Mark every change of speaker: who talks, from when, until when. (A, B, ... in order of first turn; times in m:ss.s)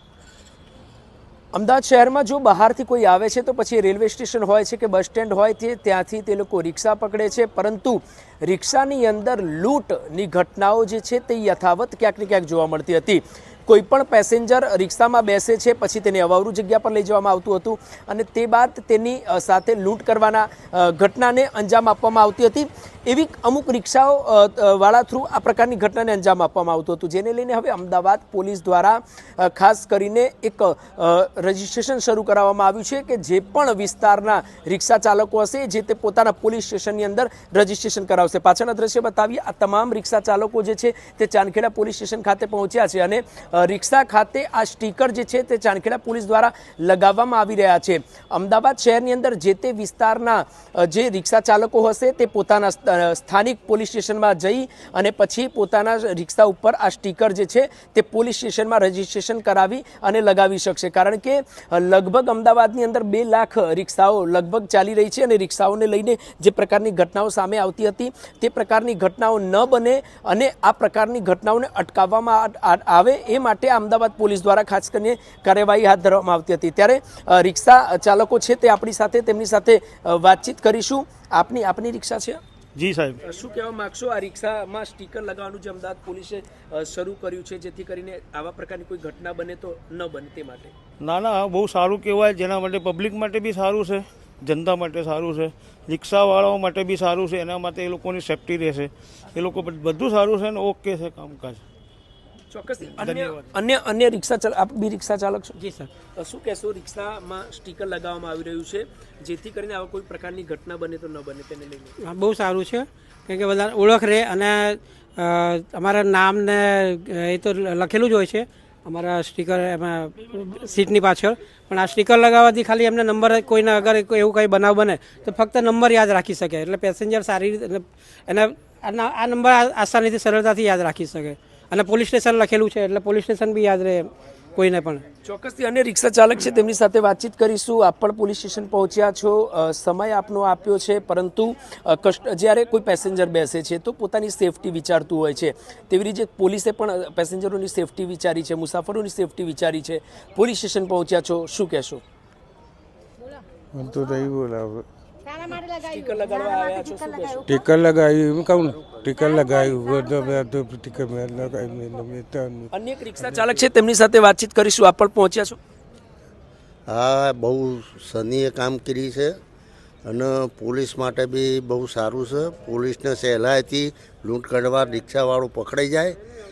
0:01.5-1:22.4 A
1:22.8-1:23.2 B
1:23.2-1:30.7 A
1:31.0-1:41.6 B
1:42.5-1:45.6 A
1:43.0-1:43.4 B
1:45.6-1:45.9 C
1:46.2-1:52.0 A
1:52.0-2:15.0 C
2:15.2-2:32.0 A
2:33.7-2:34.9 D
2:35.3-2:37.4 A
2:37.4-2:42.7 D
2:42.7-2:45.6 A
2:46.9-2:49.4 E
2:50.0-2:56.2 E